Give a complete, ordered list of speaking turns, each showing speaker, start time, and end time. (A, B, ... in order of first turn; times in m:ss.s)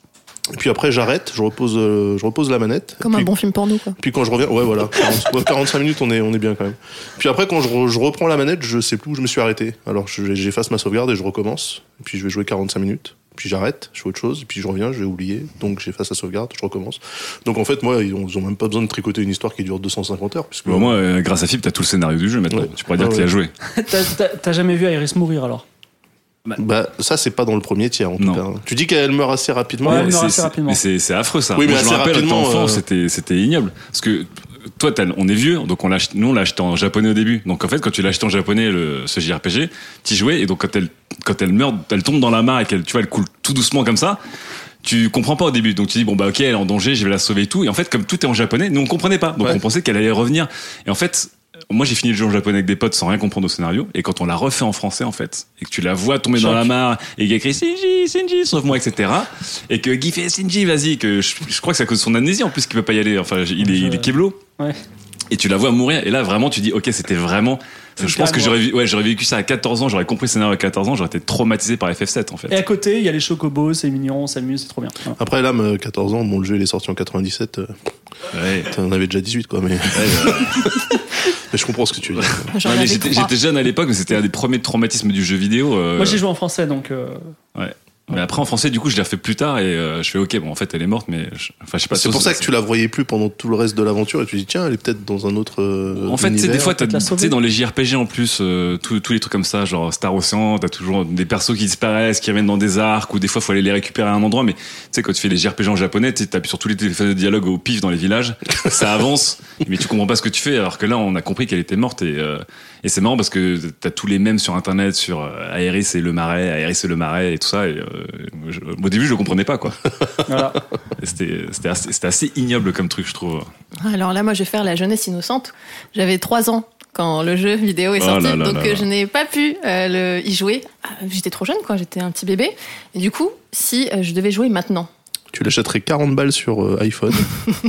0:00.5-0:03.3 A
0:03.0-0:04.0 B
0:04.0-0:21.0 A
0:20.6-0:23.5 C
0:22.5-0:23.3 A
0:23.8-0:25.6 D
0:26.6-0:30.2 A
0:29.8-0:30.8 D
0:29.9-0:44.2 C
0:31.5-0:32.8 A
0:44.8-1:04.4 C
0:56.4-0:56.7 D
1:03.6-1:04.8 D
1:05.3-1:12.6 C
1:08.0-1:08.6 D
1:12.5-1:15.2 D
1:15.2-1:17.8 A
1:18.3-1:18.7 C
1:18.6-1:20.8 A
1:19.9-1:20.8 C
1:21.4-1:22.5 A
1:22.2-1:26.2 C
1:22.5-1:23.3 B
1:26.0-1:27.3 D
1:27.5-1:32.5 C
1:31.9-1:36.7 A
1:36.0-1:59.8 C
1:36.5-1:37.3 D
2:00.3-2:00.6 D
2:01.0-2:03.5 C
2:03.8-2:14.9 B
2:08.0-2:08.9 C
2:15.3-2:17.4 A